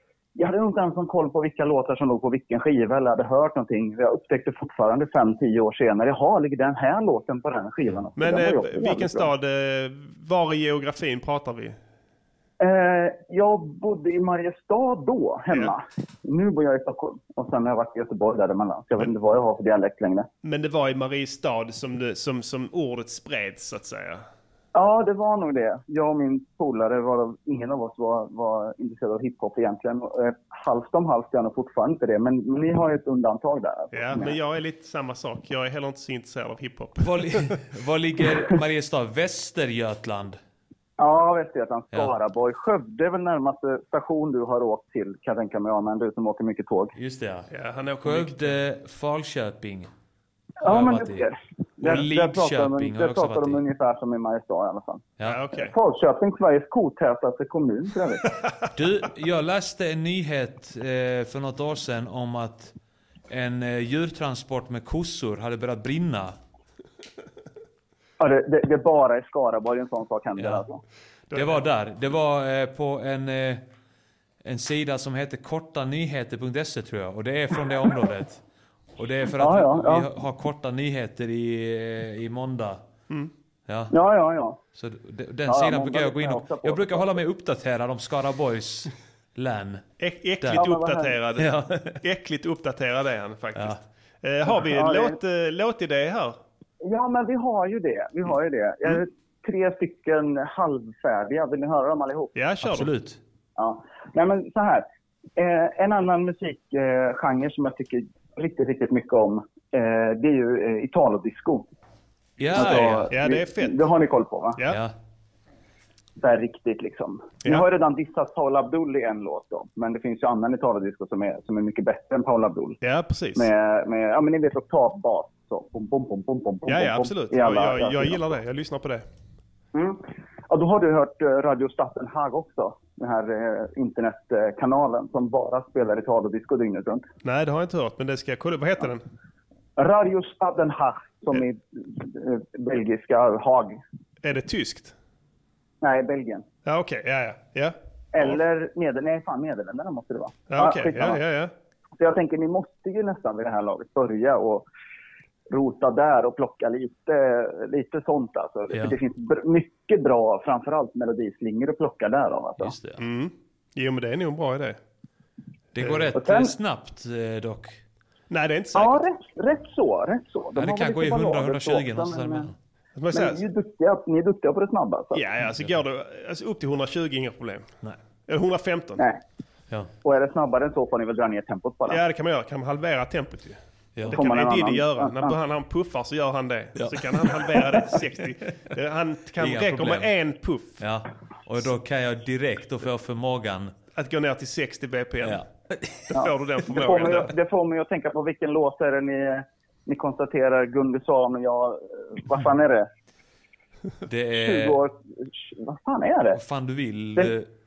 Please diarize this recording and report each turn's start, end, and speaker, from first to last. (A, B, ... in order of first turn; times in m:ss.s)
0:00.4-0:09.3 A
0:08.2-0:11.8 B
0:12.6-0:20.3 A
0:20.4-0:24.2 B
0:24.7-0:34.4 A
0:33.9-0:37.5 B
0:37.0-0:40.4 C
0:41.0-0:46.9 A
0:46.9-0:47.5 C
0:47.5-0:48.5 B
0:48.0-0:49.9 C
0:50.6-0:58.2 A
0:50.6-0:51.3 C
0:51.8-0:53.6 C
0:55.2-0:55.4 C
0:55.2-0:55.8 B
0:58.7-1:02.7 C
1:03.3-1:06.4 C
1:08.2-1:10.8 A
1:10.4-1:10.6 C
1:11.3-1:11.6 B
1:11.3-1:13.6 C
1:14.4-1:18.4 C
1:19.0-1:22.8 C
1:19.3-1:20.1 A
1:23.7-1:23.9 C
1:23.9-1:24.6 A
1:24.7-1:29.8 C
1:25.5-1:27.1 A
1:30.0-1:36.4 B
1:30.4-1:30.6 C
1:30.6-1:31.2 A
1:31.4-1:32.0 C
1:34.5-1:35.2 A
1:36.8-1:42.3 A
1:42.3-1:42.9 B
1:42.6-1:43.2 C
1:43.6-1:44.8 A
1:45.4-1:51.6 A
1:52.4-1:53.1 C
1:52.5-1:54.6 A
1:52.5-1:53.9 B
1:54.7-1:54.9 C
1:56.2-2:02.8 A
2:02.8-2:03.5 B
2:03.3-2:08.4 A
2:06.6-2:09.0 B
2:09.7-2:17.0 A
2:17.2-2:19.0 B
2:19.8-2:23.8 A
2:24.2-2:24.9 B
2:25.8-2:26.4 A
2:26.6-2:28.4 B
2:28.1-2:31.2 A
2:30.5-2:31.5 B
2:32.0-2:34.6 A
2:35.5-2:42.7 A
2:38.7-2:39.0 C
2:42.6-2:43.0 C
2:43.0-2:44.8 B
2:45.7-2:47.8 C
2:45.8-2:46.1 B
2:46.1-2:46.5 A
2:48.3-2:49.0 B
2:48.7-2:52.5 A
2:50.5-2:52.5 C
2:53.0-2:53.4 B
2:53.1-2:55.2 A
2:55.1-2:57.7 B
2:58.3-2:59.0 B
3:00.0-3:02.0 A
3:01.9-3:10.8 B
3:04.0-3:04.2 C
3:04.1-3:05.4 A
3:06.8-3:07.4 C
3:09.4-3:10.1 C
3:10.8-3:13.7 C
3:13.9-3:15.4 B
3:15.2-3:16.0 C
3:16.1-3:17.3 B
3:16.1-3:22.9 A
3:24.1-3:24.8 C
3:24.4-3:26.4 A
3:26.3-3:27.5 C